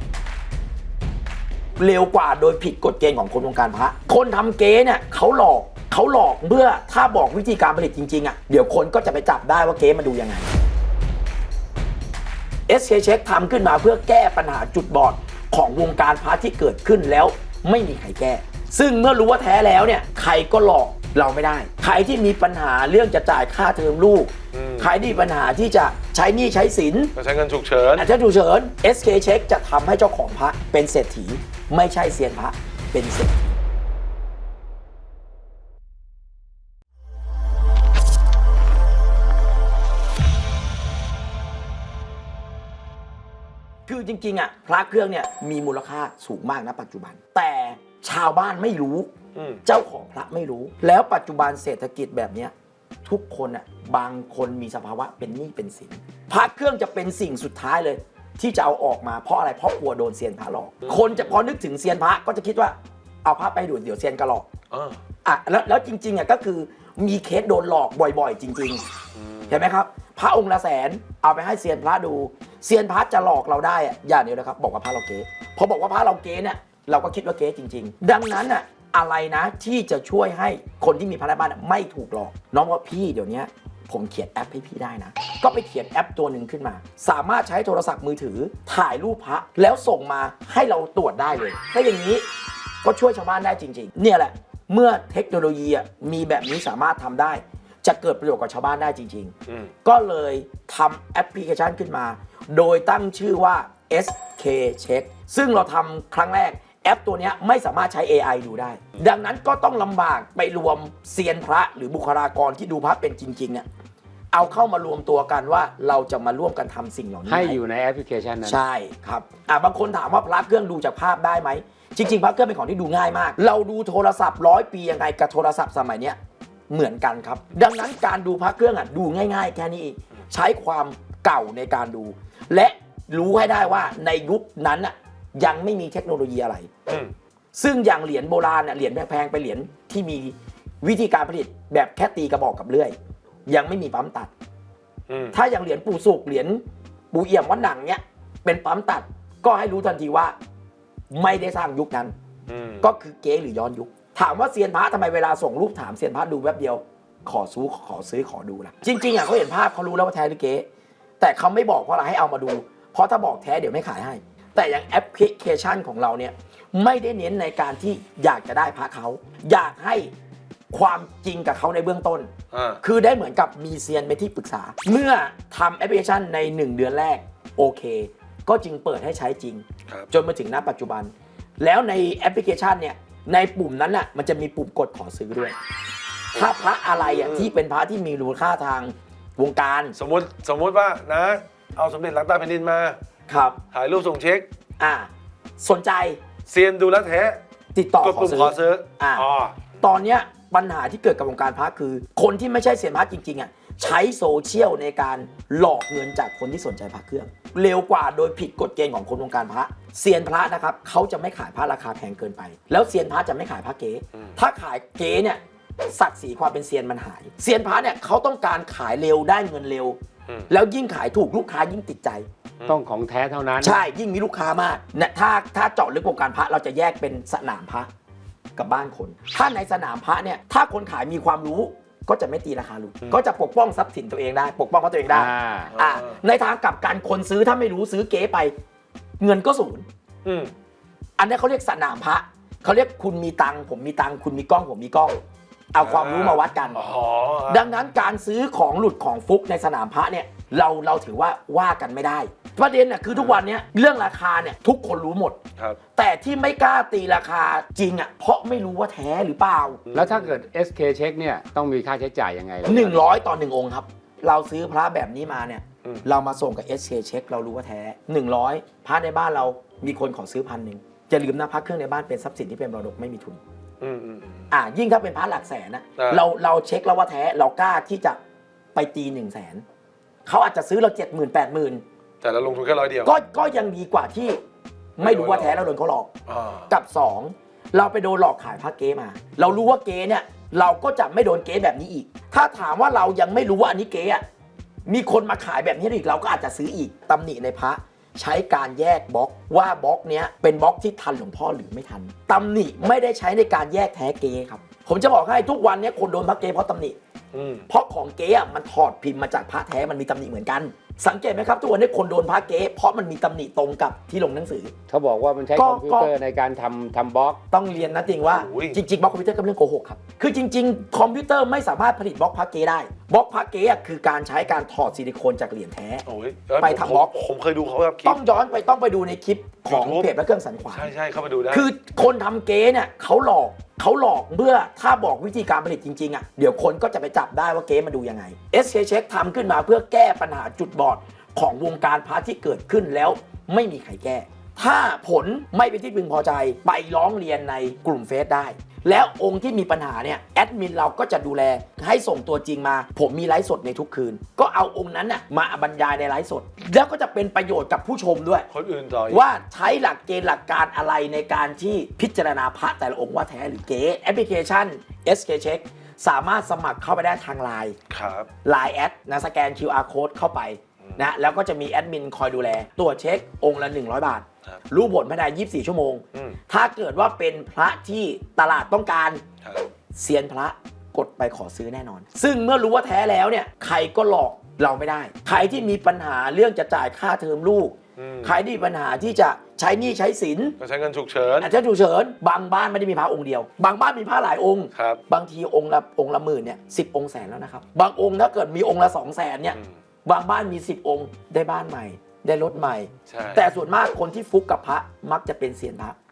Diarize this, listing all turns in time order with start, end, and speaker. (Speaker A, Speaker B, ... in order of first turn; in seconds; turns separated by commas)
Speaker A: 1.8-10.5, Speaker A: 12.7-27.1, Speaker B: 24.5-24.9, Speaker B: 27.2-28.1, Speaker A: 28.0-33.6, Speaker A: 43.9-49.1, Speaker B: 49.4-49.6, Speaker A: 49.6-52.5, Speaker A: 53.0-64.5, Speaker B: 60.8-61.4, Speaker B: 64.7-65.0, Speaker A: 65.2-68.8, Speaker B: 69.2-69.6, Speaker A: 69.5-92.2, Speaker A: 92.8-113.7, Speaker B: 99.5-99.7, Speaker A: 114.3-117.6, Speaker C: 117.3-118.6, Speaker A: 118.5-126.2, Speaker A: 126.7-136.7, Speaker B: 136.9-137.1, Speaker A: 137.6-142.9, Speaker A: 143.5-144.3, Speaker B: 145.1-145.4, Speaker A: 145.3-150.4, Speaker A: 151.1-152.1, Speaker B: 152.5-152.9, Speaker A: 152.8-160.7, Speaker A: 161.2-170.1, Speaker A: 170.7-172.3, Speaker B: 172.5-172.8, Speaker A: 172.8-185.6, Speaker B: 186.3-187.5, Speaker A: 186.4-190.0, Speaker B: 190.0-193.0, Speaker A: 193.3-193.6, Speaker B: 193.7-194.5, Speaker A: 194.8-196.2, Speaker B: 196.5-197.4, Speaker A: 197.7-199.2, Speaker B: 198.0-199.8, Speaker A: 199.8-215.4, Speaker A: 215.9-220.0, Speaker A: 220.5-222.3, Speaker C: 222.7-223.8, Speaker A: 223.6-227.9, Speaker A: 228.6-238.5, Speaker C: 235.1-235.7, Speaker B: 235.7-236.2, Speaker A: 239.2-239.9, Speaker B: 240.2-240.5, Speaker A: 241.2-245.2, Speaker A: 245.7-246.9, Speaker B: 245.8-247.7, Speaker A: 247.5-255.4, Speaker B: 253.1-253.4, Speaker A: 255.9-259.8, Speaker B: 259.9-260.4, Speaker C: 259.9-263.1, Speaker A: 262.7-273.4, Speaker B: 273.8-274.5, Speaker A: 274.5-278.2, Speaker B: 276.0-276.2, Speaker A: 278.8-279.6, Speaker A: 280.3-281.8, Speaker B: 282.2-283.1, Speaker A: 283.0-284.4, Speaker A: 285.0-286.1, Speaker B: 285.0-285.6, Speaker B: 286.3-286.7, Speaker A: 286.7-294.2, Speaker A: 294.9-307.0, Speaker B: 307.3-307.7, Speaker A: 307.7-314.7, Speaker C: 314.9-317.4, Speaker A: 315.6-316.1, Speaker A: 317.5-326.1, Speaker B: 318.2-318.8, Speaker B: 326.1-328.2, Speaker A: 326.6-327.1, Speaker A: 328.0-330.9, Speaker B: 329.7-330.1, Speaker B: 330.7-331.7, Speaker A: 331.5-358.5, Speaker B: 358.5-359.2, Speaker A: 359.1-367.8, Speaker B: 367.9-368.3, Speaker A: 368.4-379.2, Speaker B: 376.1-376.4, Speaker A: 379.9-390.6, Speaker B: 388.0-388.4, Speaker B: 390.6-391.5, Speaker A: 391.4-406.0, Speaker B: 394.7-395.0, Speaker B: 403.1-403.5